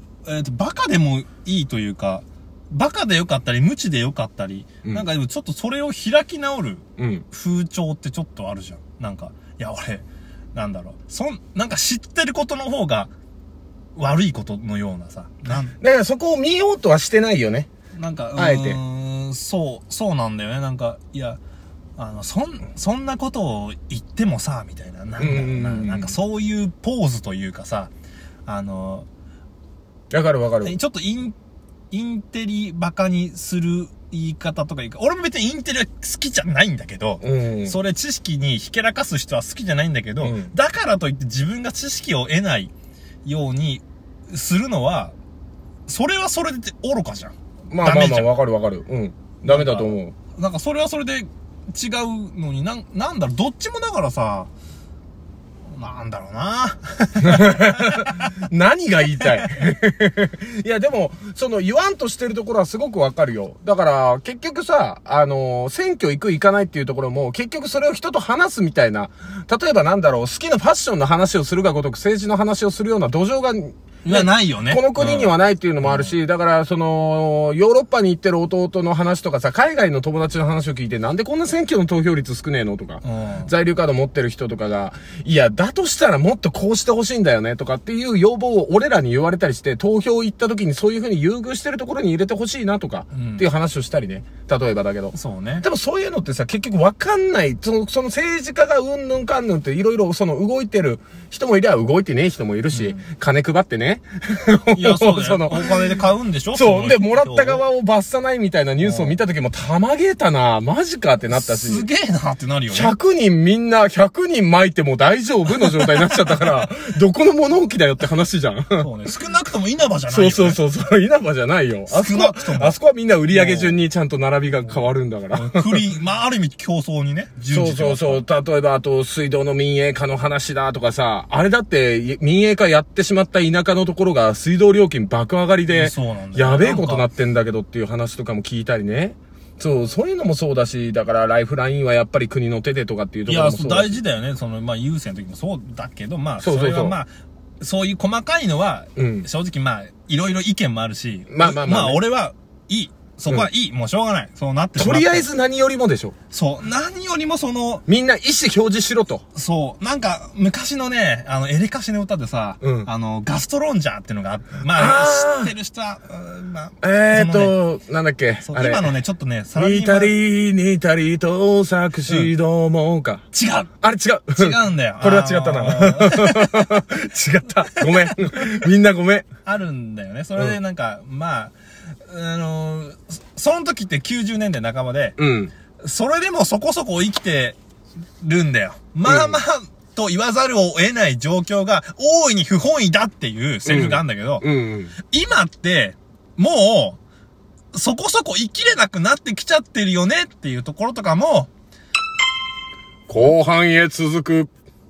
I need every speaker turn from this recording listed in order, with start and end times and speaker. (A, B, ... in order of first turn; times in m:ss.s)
0:00.2-0:13.1 A
0:07.0-0:07.3 B
0:14.0-0:15.7 A
0:15.8-0:17.7 B
0:18.0-0:21.4 A
0:18.4-0:18.8 B
0:22.0-0:27.9 A
0:25.2-0:26.2 B
0:28.5-0:29.1 A
0:30.1-0:30.8 B
0:30.6-0:31.4 A
0:31.9-0:42.7 A
0:37.2-0:37.8 B
0:40.2-0:40.5 B
0:43.2-0:45.2 A
0:45.9-0:48.3 A
0:47.7-0:50.2 B
0:49.4-0:54.5 A
0:55.7-0:58.3 A
0:57.2-1:45.7 B
1:14.0-1:16.1 A
1:23.0-1:23.5 A
1:33.1-1:33.5 A
1:35.1-1:35.6 A
1:42.7-1:43.0 A
1:44.7-1:47.6 A
1:46.5-1:51.9 B
1:48.8-1:49.2 A
1:51.3-1:53.0 A
1:52.7-1:58.9 B
1:55.8-1:56.6 A
1:58.8-2:00.6 A
2:00.1-2:05.8 B
2:01.9-2:02.8 A
2:03.3-2:03.8 A
2:04.7-2:08.2 A
2:07.5-2:24.0 B
2:15.7-2:17.1 A
2:23.3-2:27.1 A
2:26.4-2:27.0 B
2:27.6-2:35.3 A
2:29.0-2:29.3 B
2:31.3-2:32.0 B
2:34.8-2:36.2 B
2:36.3-2:37.8 A
2:37.9-2:39.2 B
2:39.4-2:47.6 A
2:42.6-2:42.9 B
2:44.7-2:45.5 B
2:46.8-2:48.9 B
2:48.4-2:50.1 A
2:49.6-2:53.2 B
2:53.3-2:53.7 A
2:53.8-2:59.3 B
2:54.3-2:56.8 A
2:57.8-2:58.7 A
2:59.4-3:01.5 A
3:02.1-3:05.2 A
3:05.2-3:05.5 B
3:05.8-3:07.6 A
3:08.2-3:14.5 A
3:09.0-3:09.4 B
3:13.6-3:15.0 B
3:15.1-3:17.0 A
3:17.7-3:21.5 A
3:23.1-3:24.5 B